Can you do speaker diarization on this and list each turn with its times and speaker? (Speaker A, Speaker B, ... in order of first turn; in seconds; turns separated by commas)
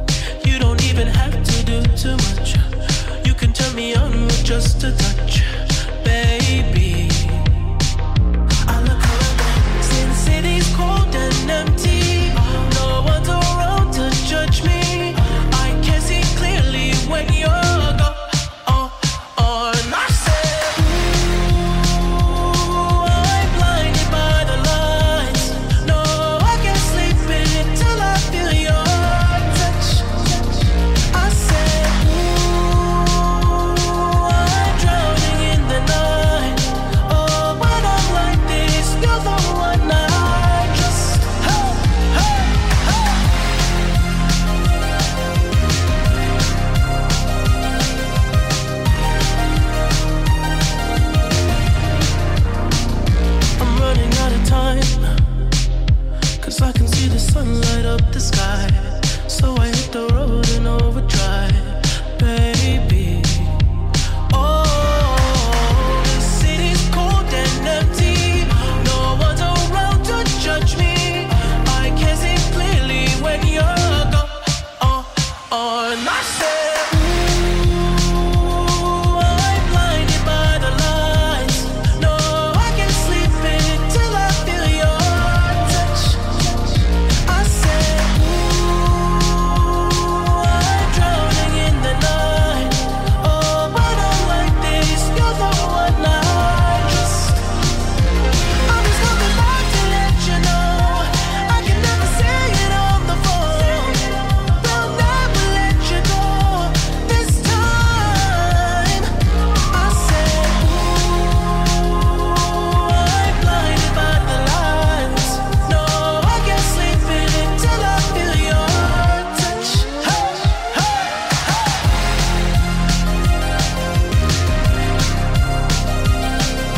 Speaker A: 0.4-7.6, Speaker A: 8.7-43.2, Speaker A: 53.6-55.2, Speaker A: 56.4-63.6, Speaker A: 64.3-97.4, Speaker A: 98.7-109.1, Speaker A: 109.7-121.4